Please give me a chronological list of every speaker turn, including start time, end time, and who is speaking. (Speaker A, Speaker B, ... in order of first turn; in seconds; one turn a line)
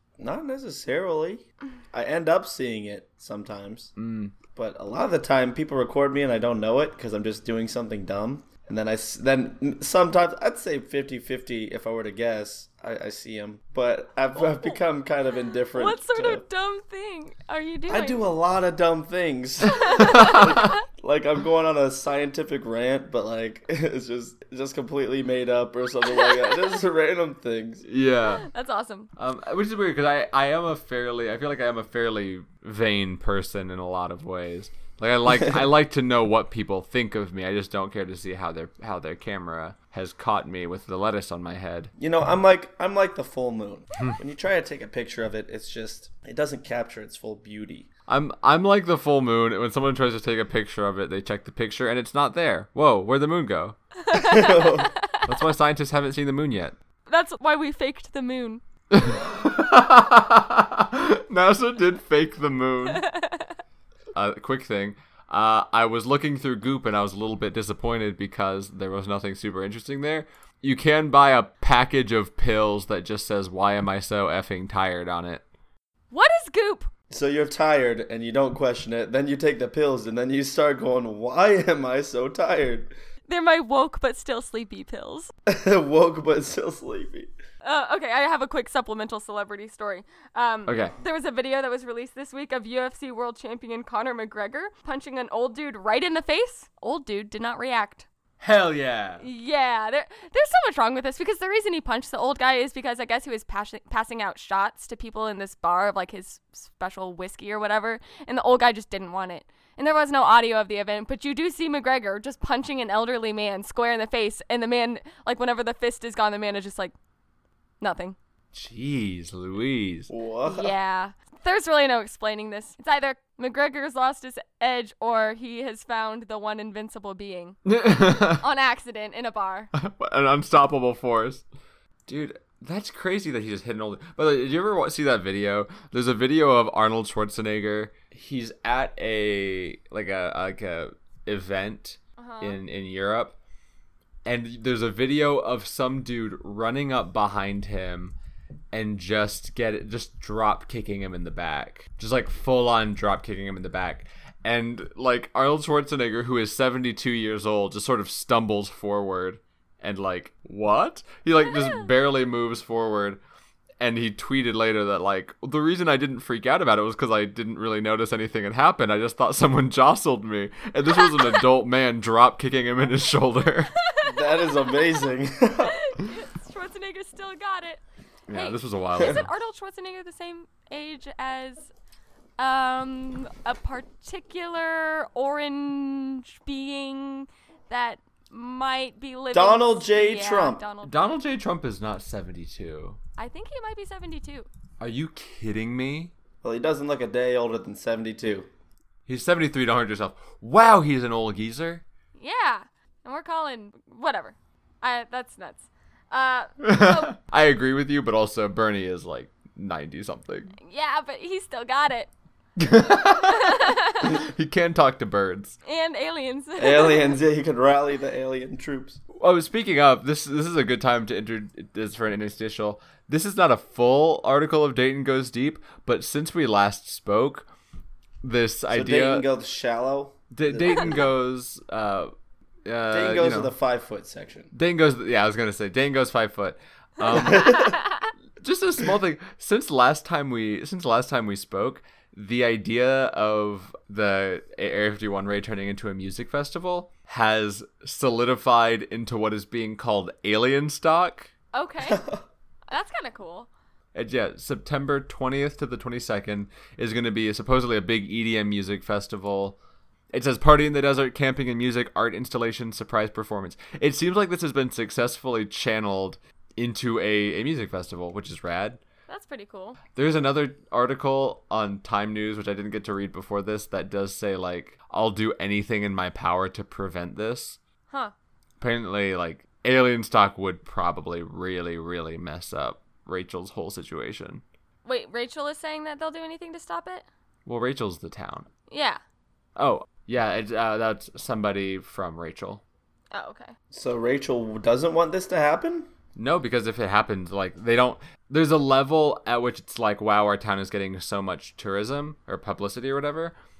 Speaker A: 0.2-3.9
Speaker B: 4.0-4.3
Speaker A: 4.5-16.4
Speaker C: 14.3-14.8
Speaker C: 15.7-18.2
Speaker A: 17.9-27.8
Speaker C: 19.6-20.8
Speaker B: 20.2-20.5
Speaker C: 26.1-26.5
Speaker B: 27.8-28.4
Speaker C: 28.3-29.1
Speaker B: 29.2-41.9
Speaker A: 42.0-47.9
Speaker B: 48.1-53.8
Speaker C: 54.0-55.3
Speaker A: 54.1-54.9
Speaker B: 55.2-56.8
Speaker C: 57.1-58.6
Speaker B: 58.9-63.0
Speaker C: 62.9-63.5
Speaker B: 64.1-75.4
Speaker C: 76.1-76.9
Speaker A: 77.1-82.9
Speaker C: 83.3-85.3
Speaker A: 85.5-87.3
Speaker C: 87.6-98.0
Speaker B: 90.7-90.9
Speaker B: 98.4-99.2
Speaker C: 99.2-116.9
Speaker C: 117.8-118.2
Speaker B: 118.5-120.1
Speaker A: 120.1-120.7
Speaker C: 120.4-127.6
Speaker B: 127.7-128.4
Speaker C: 128.2-129.7
Speaker B: 129.7-131.4
Speaker B: 132.1-143.3
Speaker C: 142.2-142.6
Speaker B: 144.2-148.2
Speaker B: 148.7-163.2
Speaker C: 161.5-161.8
Speaker B: 163.8-173.7
Speaker C: 170.9-171.4
Speaker C: 173.8-175.0
Speaker A: 174.0-175.8
Speaker C: 175.6-181.7
Speaker B: 178.3-179.3
Speaker C: 182.4-191.1
Speaker A: 189.3-190.6
Speaker B: 190.8-193.0
Speaker C: 193.2-194.5
Speaker B: 194.8-196.1
Speaker A: 196.4-198.5
Speaker B: 199.1-201.8
Speaker C: 202.2-207.1
Speaker B: 206.6-210.6
Speaker C: 210.6-212.1
Speaker B: 212.6-215.6
Speaker C: 213.2-214.2
Speaker C: 215.6-217.1
Speaker A: 216.6-219.0
Speaker B: 219.1-227.5
Speaker B: 228.2-229.2
Speaker A: 228.7-231.1
Speaker B: 230.3-232.1
Speaker B: 232.7-233.5
Speaker A: 232.9-234.5
Speaker B: 234.5-237.8
Speaker A: 237.1-237.7
Speaker C: 237.2-238.1
Speaker B: 238.4-251.3
Speaker C: 251.5-252.0
Speaker A: 251.8-252.2
Speaker C: 252.7-253.5
Speaker B: 253.9-259.6
Speaker B: 260.1-268.8
Speaker C: 269.1-269.8
Speaker B: 269.9-277.6
Speaker B: 278.6-284.4
Speaker C: 284.8-287.1
Speaker B: 287.4-288.5
Speaker C: 288.7-289.0
Speaker B: 289.6-292.6
Speaker C: 293.1-293.5
Speaker A: 293.7-295.9
Speaker B: 296.1-303.3